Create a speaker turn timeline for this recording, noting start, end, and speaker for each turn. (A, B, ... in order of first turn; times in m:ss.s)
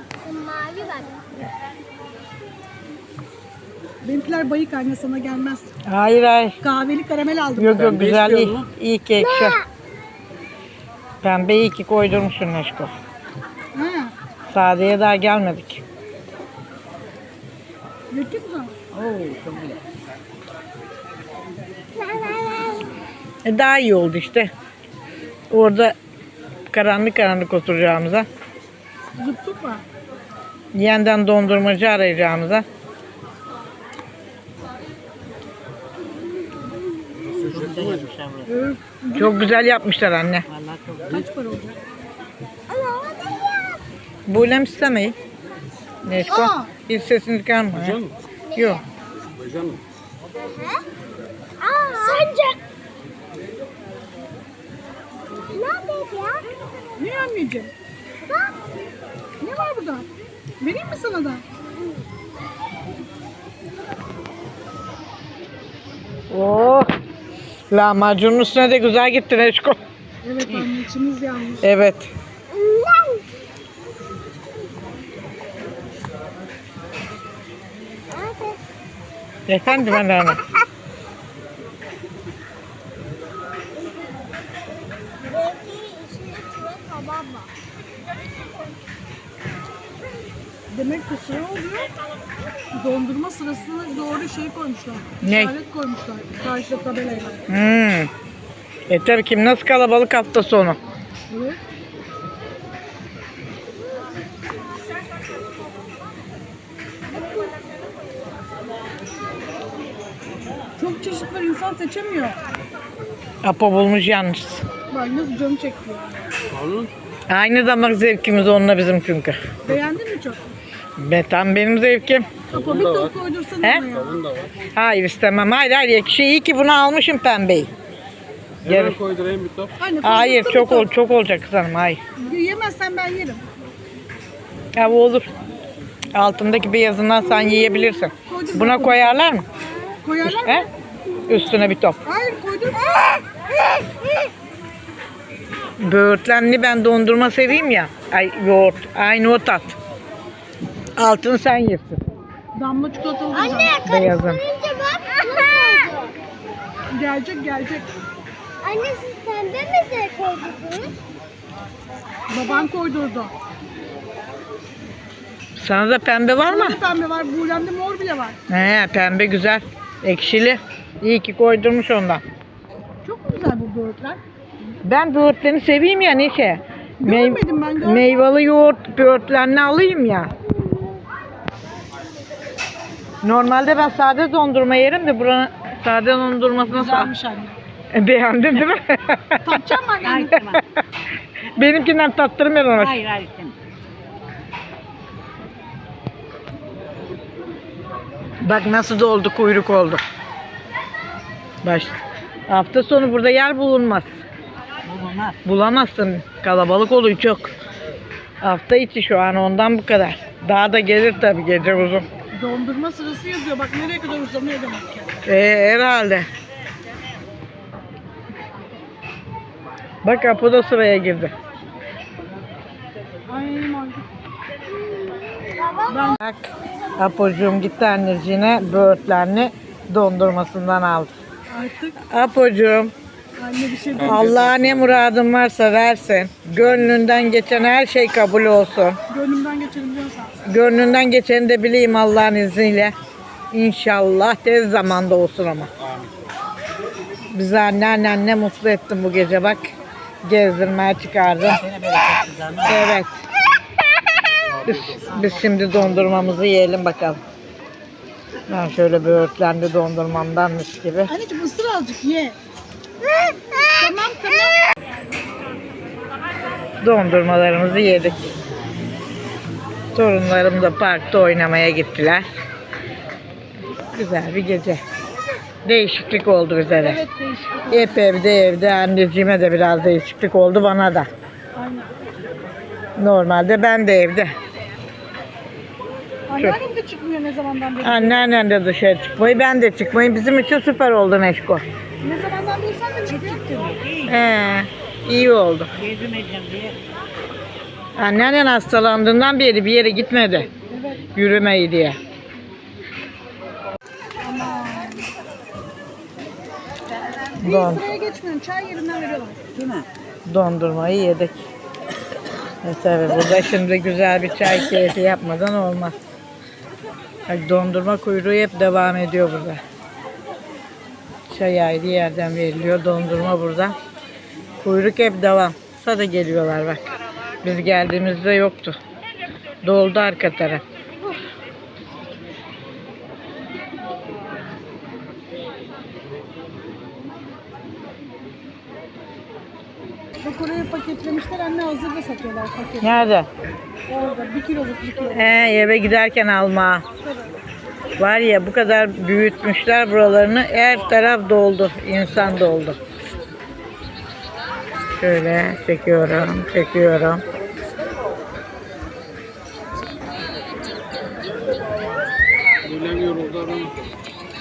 0:00.2-0:01.2 A
0:04.0-0:05.7 B
0:05.8-0:06.6 C
0:06.6-0:07.9 B
0:07.6-0:09.6 C
0:07.8-0:08.7 D
0:09.2-0:09.6 A
0:11.2-0:12.9 C
0:13.7-0:14.1 B
0:14.5-0:15.8 C
0:18.1-0:18.8 B
0:18.9-0:19.8 E
0:22.0-0:22.9 A
0:23.4-0:24.5 C
0:25.5-0:25.9 C
0:26.7-0:28.2 C
0:29.2-0:29.8 B
0:30.7-0:32.6 C
0:37.2-0:38.1 D
0:37.3-0:38.5 E
0:38.4-0:39.6 B
0:39.2-0:40.4 C
0:40.5-0:41.2 E
0:41.1-0:41.8 B
0:42.7-0:43.8 A
0:44.3-0:45.2 C
0:46.0-0:48.0 C
0:46.3-0:46.7 B
0:47.7-0:48.2 D
0:48.5-0:48.8 A
0:48.6-0:48.8 C
0:49.2-0:49.8 D
0:50.4-0:50.8 A
0:51.6-0:52.3 A
0:52.0-0:52.5 B
0:55.5-0:56.4 A
0:57.0-0:57.7 B
0:58.2-0:58.5 A
0:59.4-1:00.1 B
1:00.6-1:01.4 B
1:06.3-1:06.9 C
1:07.7-1:09.8 C
1:10.2-1:11.6 B
1:11.6-1:12.1 C
1:12.5-1:13.2 A
1:18.1-1:18.6 A
1:19.5-1:20.4 C
1:19.8-1:20.3 A
1:25.3-1:27.5 A
1:30.7-1:31.9 B
1:32.7-1:37.4 B
1:35.2-1:35.5 C
1:37.5-1:38.1 C
1:38.9-1:40.8 C
1:41.3-1:41.6 B
1:50.8-1:52.4 B
1:53.4-1:54.6 C
1:54.9-1:56.2 B
1:56.5-1:56.9 D
1:57.3-1:59.4 C
1:59.6-2:00.5 B
2:01.0-2:02.3 C
2:02.5-2:03.2 D
2:02.5-2:04.2 B
2:03.8-2:04.6 D
2:04.8-2:07.7 C
2:08.6-2:09.8 D
2:08.6-2:09.0 C
2:09.8-2:10.9 B
2:10.0-2:12.0 C
2:12.2-2:13.4 B
2:14.8-2:15.3 C
2:16.1-2:19.4 C
2:18.2-2:19.2 B
2:20.0-2:20.7 B
2:20.2-2:20.6 C
2:21.3-2:22.0 C
2:22.0-2:22.9 B
2:25.8-2:29.8 C
2:31.0-2:32.0 C
2:32.6-2:33.8 B
2:33.3-2:36.2 A
2:33.8-2:34.4 C
2:36.9-2:37.9 B
2:38.6-2:40.9 A
2:42.3-2:43.3 B
2:42.4-2:42.6 A
2:45.6-2:46.8 C
2:46.4-2:48.4 B
2:48.5-2:52.2 C
2:53.0-2:54.2 B
2:54.8-3:00.3 C
2:57.0-2:58.1 B
3:03.2-3:07.1 C
3:06.6-3:07.6 B
3:07.9-3:09.6 C
3:09.4-3:10.4 B
3:10.0-3:10.6 E
3:11.5-3:13.0 C
3:12.7-3:13.6 E
3:18.4-3:20.0 C
3:21.6-3:24.2 C
3:24.9-3:25.4 E
3:25.4-3:27.5 C
3:28.4-3:32.0 C
3:32.3-3:35.1 B
3:35.2-3:36.2 C
3:40.0-3:41.3 C
3:43.3-3:44.1 B
3:44.8-3:46.2 A
3:45.9-3:46.2 B
3:46.2-3:51.1 C
3:51.5-3:52.0 B
3:52.1-3:52.9 C
3:53.4-3:54.3 B
3:54.0-3:55.0 D
3:54.0-3:59.0 C
3:59.1-4:00.3 B
4:00.4-4:02.9 C
4:03.5-4:05.7 C
4:05.8-4:06.1 D
4:07.3-4:09.6 C
4:10.2-4:11.6 C
4:11.4-4:12.9 E
4:12.6-4:13.1 C
4:14.4-4:15.0 D
4:14.6-4:17.2 C
4:15.1-4:16.3 E
4:18.5-4:21.1 C
4:21.1-4:22.4 B
4:23.8-4:24.6 B
4:26.8-4:28.3 C
4:29.9-4:32.2 C
4:33.9-4:34.8 C
4:35.6-4:37.0 C
4:36.8-4:38.0 B
4:37.7-4:41.1 C
4:41.5-4:41.9 B
4:43.0-4:44.3 C
4:46.3-4:48.2 B
4:47.8-4:51.6 C
4:52.0-4:53.5 B
4:53.1-4:54.2 E
4:54.1-4:55.7 C
4:55.8-4:56.8 E
4:58.0-5:00.5 C
5:00.7-5:01.0 B
5:01.2-5:02.0 C
5:04.2-5:05.0 B
5:07.4-5:07.9 C
5:07.4-5:09.4 B
5:09.5-5:09.9 E
5:10.2-5:11.4 C
5:12.6-5:16.0 C
5:17.3-5:19.6 C
5:21.3-5:23.8 C
5:24.6-5:26.8 C
5:27.4-5:28.8 C
5:29.6-5:30.6 C
5:40.2-5:43.1 B
5:42.8-5:43.3 C
5:43.9-5:45.3 B
5:45.1-5:46.8 C
5:48.0-5:52.8 C
5:55.0-5:57.2 C
6:02.6-6:03.7 D